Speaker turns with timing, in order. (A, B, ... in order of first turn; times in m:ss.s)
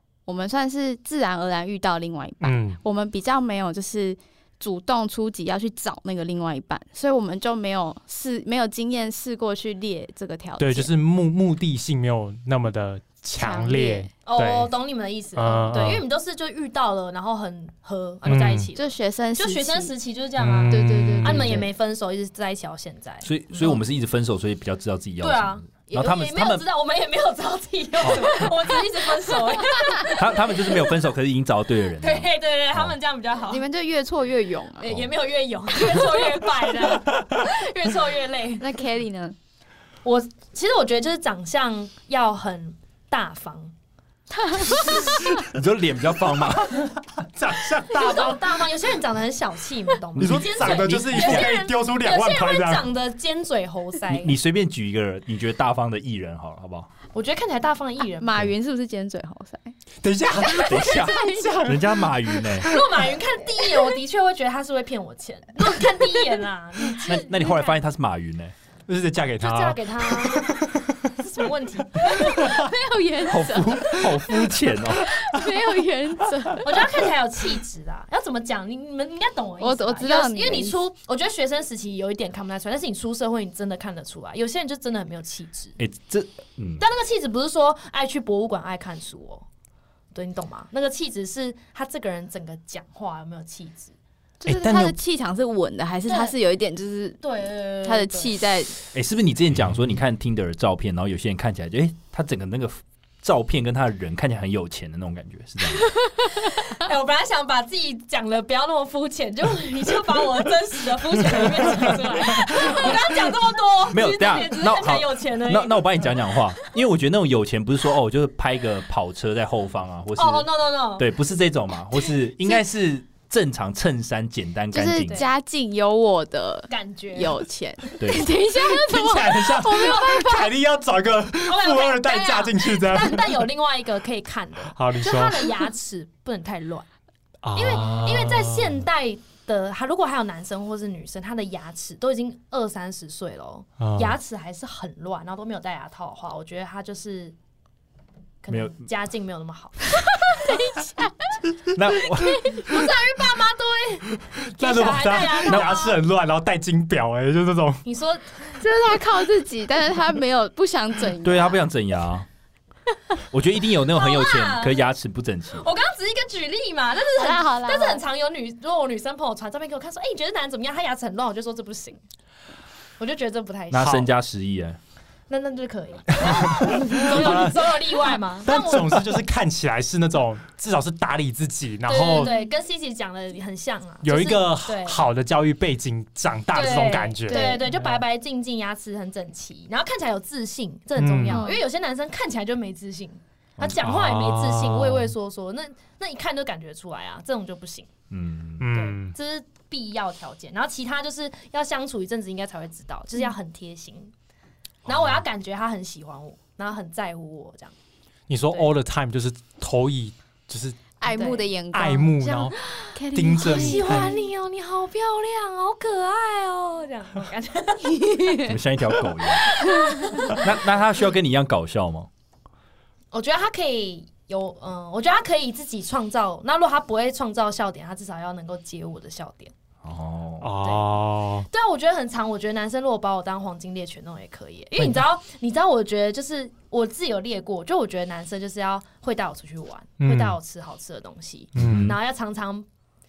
0:00.2-0:10.9 A
0:02.4-0:02.8 B
0:10.6-0:14.7 B
0:13.4-0:14.1 A
0:14.2-0:23.7 C
0:15.4-0:16.0 B
0:18.2-0:18.7 B
0:18.8-0:19.9 A
0:20.4-0:21.6 B
0:20.7-0:21.7 A
0:23.2-0:26.6 D
0:25.2-0:30.9 C
0:28.0-0:28.4 D
0:30.1-0:32.9 D
0:32.0-0:33.6 C
0:33.5-0:35.0 A
0:34.8-0:38.7 C
0:35.9-0:36.2 A
0:38.6-0:39.4 A
0:40.0-0:43.7 C
0:44.4-0:45.2 A
0:45.2-0:46.9 D
0:47.2-0:48.5 B
0:47.9-0:54.4 C
0:50.1-0:51.5 D
0:50.2-0:52.8 B
0:54.1-0:56.9 D
0:57.1-0:58.5 C
0:58.2-0:59.7 A
1:00.0-1:03.0 B
1:00.5-1:02.7 D
1:00.6-1:01.6 A
1:02.6-1:07.6 C
1:07.0-1:08.5 D
1:08.9-1:10.8 B
1:09.4-1:12.5 C
1:12.0-1:12.7 B
1:12.2-1:14.4 A
1:13.2-1:15.2 D
1:14.9-1:17.0 A
1:16.6-1:25.8 C
1:19.6-1:20.8 A
1:25.8-1:26.8 D
1:26.8-1:29.5 C
1:30.1-1:33.9 C
1:34.4-1:37.2 A
1:34.5-1:35.0 B
1:36.1-1:36.4 C
1:37.2-1:38.4 C
1:37.8-1:38.7 A
1:38.9-1:45.9 D
1:46.1-1:56.1 C
1:53.9-2:05.2 D
2:00.2-2:01.1 C
2:04.7-2:10.6 A
2:06.7-2:07.4 C
2:08.0-2:08.3 D
2:08.5-2:13.4 B
2:11.5-2:16.9 C
2:14.7-2:15.6 B
2:17.4-2:18.8 B
2:17.5-2:27.4 C
2:23.8-2:24.2 B
2:28.4-2:30.6 C
2:28.5-2:28.8 D
2:30.1-2:31.1 A
2:31.7-2:32.6 D
2:32.5-2:36.0 C
2:34.4-2:37.8 B
2:35.4-2:35.8 D
2:37.8-2:38.7 C
2:38.6-2:41.6 A
2:41.2-2:42.3 D
2:43.3-2:45.7 D
2:43.9-2:44.8 C
2:45.5-2:52.0 C
2:47.2-2:48.0 A
2:53.0-2:54.0 C
2:53.7-2:54.8 D
2:53.8-2:54.1 B
2:55.3-2:59.2 C
2:56.2-3:02.3 B
3:01.9-3:05.0 C
3:04.0-3:08.0 B
3:06.5-3:17.9 C
3:07.2-3:07.6 A
3:11.0-3:11.5 B
3:11.3-3:11.6 A
3:13.6-3:13.9 D
3:13.8-3:15.1 B
3:18.1-3:18.7 D
3:18.6-3:19.1 B
3:18.7-3:24.1 C
3:24.9-3:27.8 C
3:28.3-3:30.9 B
3:31.0-3:34.2 A
3:31.0-3:31.5 C
3:31.7-3:32.6 B
3:32.4-3:32.6 C
3:33.1-3:34.1 B
3:33.4-3:38.5 C
3:38.1-3:38.4 A
3:38.4-3:39.5 D
3:39.2-3:40.5 C
3:39.7-3:40.1 A
3:40.3-3:42.1 D
3:43.1-3:49.5 C
3:49.8-3:50.5 D
3:50.4-3:51.5 B
3:50.6-4:02.6 C
4:00.0-4:00.4 B
4:01.6-4:01.9 B
4:01.6-4:02.0 D